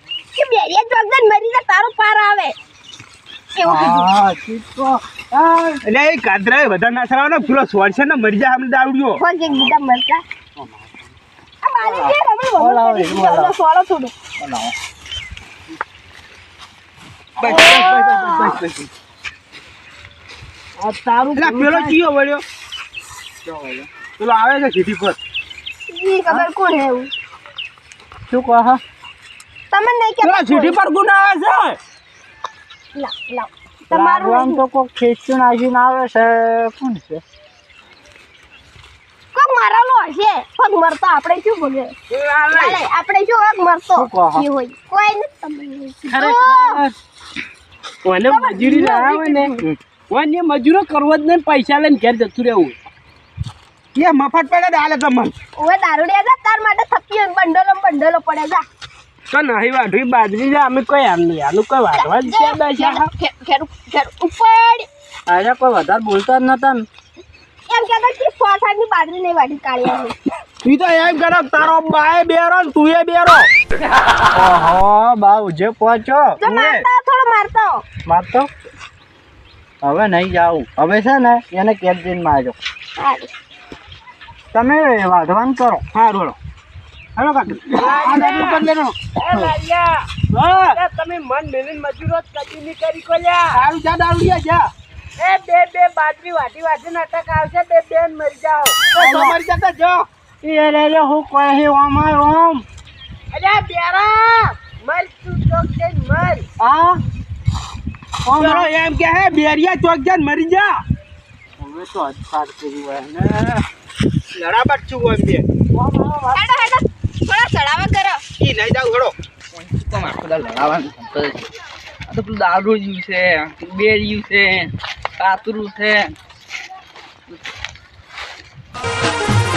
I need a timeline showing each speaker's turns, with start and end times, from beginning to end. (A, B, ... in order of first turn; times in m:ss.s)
0:00.4-0:02.5 A
0:03.5-0:04.1 A
0:03.6-0:05.8 B
0:05.8-0:09.2 C
0:09.2-0:10.2 A
0:11.6-0:14.1 A
0:11.8-0:13.5 B
0:14.4-0:14.7 B
0:17.4-0:18.9 C
0:17.5-0:17.9 D
0:20.8-0:22.0 D
0:21.3-0:22.4 C
0:23.4-0:23.9 B
0:24.2-0:25.2 C
0:25.9-0:27.1 A
0:28.3-0:28.8 B
0:29.7-0:30.8 A
0:30.2-0:31.8 C
0:32.9-0:34.6 A
0:33.9-0:37.2 B
0:39.3-0:41.9 A
0:42.1-0:42.8 D
0:42.5-0:46.8 A
0:43.9-0:44.4 B
0:46.1-0:46.9 D
0:48.0-0:49.5 D
0:48.2-0:49.6 A
0:50.1-0:52.8 D
0:53.9-0:55.3 C
0:55.6-0:58.6 A
0:59.3-1:03.1 D
1:01.9-1:04.9 A
1:05.3-1:06.8 B
1:07.7-1:10.1 A
1:10.6-1:13.5 C
1:14.3-1:16.8 B
1:16.4-1:17.8 A
1:18.0-1:18.5 B
1:19.8-1:22.6 B
1:23.0-1:23.3 A
1:24.5-1:25.8 B
1:25.9-1:26.4 C
1:27.2-1:29.0 C
1:27.7-1:28.6 D
1:29.1-1:30.2 D
1:30.3-1:30.8 C
1:30.7-1:33.6 D
1:33.5-1:34.7 C
1:35.2-1:38.8 D
1:38.9-1:40.0 C
1:39.0-1:39.4 B
1:40.4-1:42.6 B
1:43.3-1:46.4 D
1:46.6-1:47.0 B
1:48.2-1:48.7 B
1:48.4-1:50.8 C
1:51.6-1:53.6 B
1:54.3-1:55.4 C
1:55.7-1:56.7 B
1:56.3-1:58.2 A
1:58.4-1:59.1 C
1:59.6-2:01.4 E
2:02.1-2:06.1 E